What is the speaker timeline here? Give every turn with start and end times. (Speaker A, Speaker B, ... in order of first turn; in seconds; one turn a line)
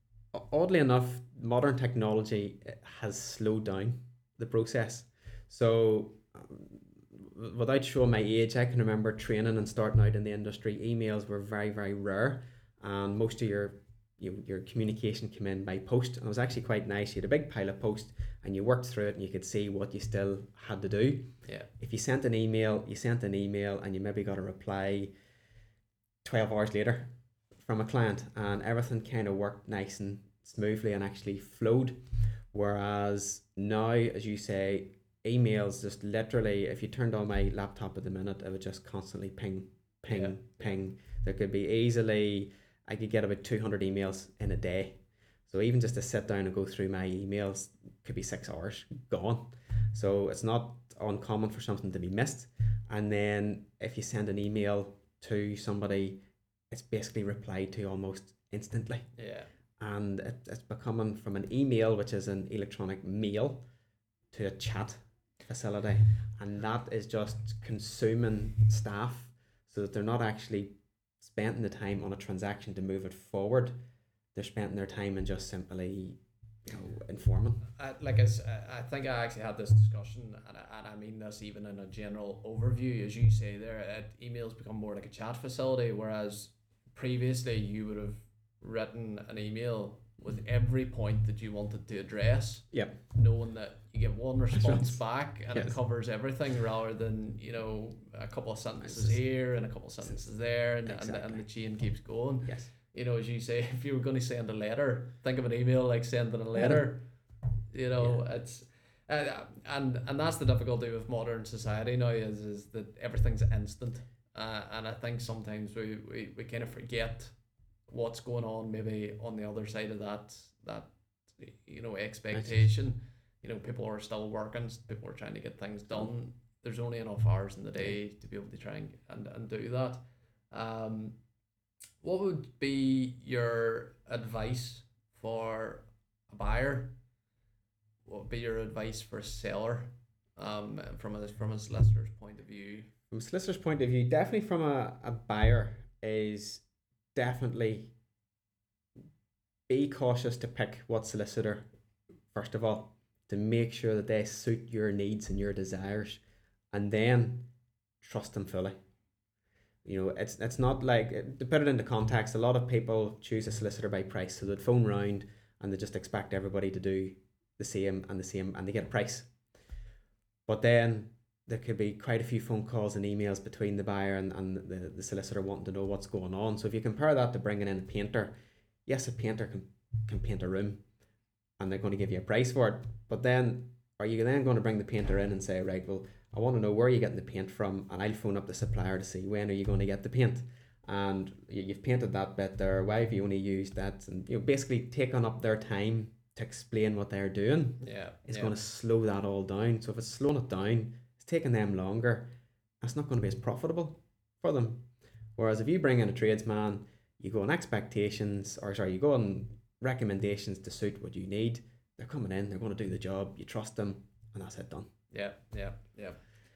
Speaker A: 0.3-25.1
Speaker B: 21.4-21.7
Speaker A: 26.2-32.0
Speaker A: 32.5-59.1
Speaker B: 40.1-40.7
Speaker B: 59.2-59.5
Speaker A: 59.8-63.6
Speaker A: 64.3-73.8
Speaker A: 74.3-77.6
Speaker B: 77.8-107.1
Speaker A: 92.7-93.0
Speaker A: 94.5-95.0
Speaker A: 98.8-99.2
Speaker A: 100.8-101.4
Speaker A: 106.6-106.9
Speaker B: 107.7-117.3
Speaker B: 117.9-131.2
Speaker B: 132.0-136.9
Speaker B: 138.1-142.9
Speaker A: 143.1-146.6
Speaker A: 147.2-147.9
Speaker A: 149.7-151.7
Speaker A: 152.3-157.5
Speaker A: 158.0-158.8
Speaker A: 159.8-169.3
Speaker A: 170.5-178.3
Speaker A: 178.9-180.8
Speaker A: 181.6-214.9
Speaker B: 197.8-198.6
Speaker B: 215.1-216.2